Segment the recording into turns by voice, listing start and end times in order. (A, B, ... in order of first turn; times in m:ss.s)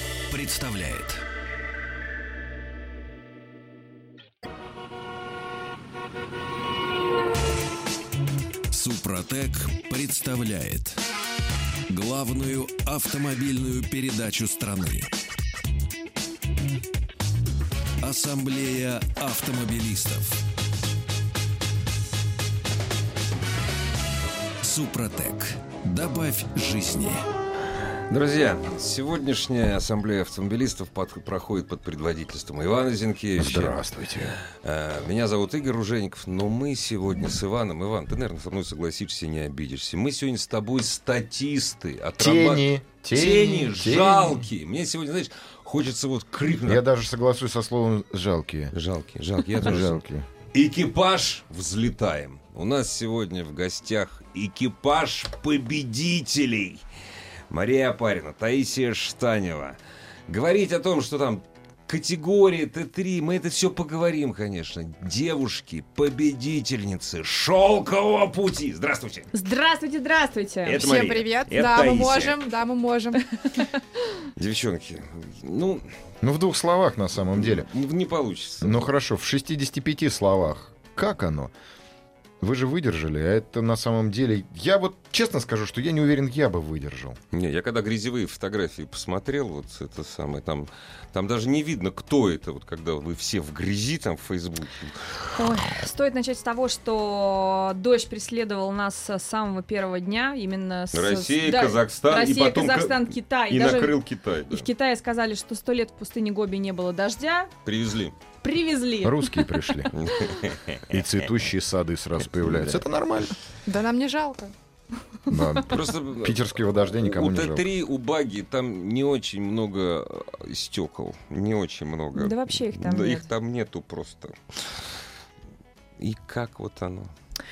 0:00.3-0:01.2 A
0:08.7-0:11.0 A
0:11.9-0:15.1 A
0:18.0-0:20.4 A
0:24.6-0:27.2 A
0:28.1-0:33.8 B
0:33.4-0:34.4 C
0:34.5-0:46.8 B
0:42.2-0:44.4 C
0:46.6-0:48.7 C
0:48.7-0:56.8 B
0:49.5-0:50.2 C
0:57.5-0:59.8 B
1:00.3-1:09.3 B
1:09.3-1:10.9 D
1:10.6-1:12.4 B
1:10.8-1:13.2 E
1:14.4-1:15.8 B
1:16.2-1:17.7 C
1:17.3-1:18.9 B
1:18.6-1:21.5 C
1:22.4-1:27.2 C
1:27.3-1:35.2 B
1:35.3-1:43.9 D
1:40.9-1:44.7 B
1:44.5-1:47.5 D
1:47.6-1:48.2 B
1:48.4-1:49.5 D
1:49.0-1:49.9 C
1:49.9-1:51.0 B
1:50.9-1:53.4 C
1:52.4-1:52.8 B
1:53.6-1:54.5 E
1:55.3-1:57.6 C
1:55.7-2:04.4 B
2:02.1-2:03.3 D
2:06.0-2:07.1 B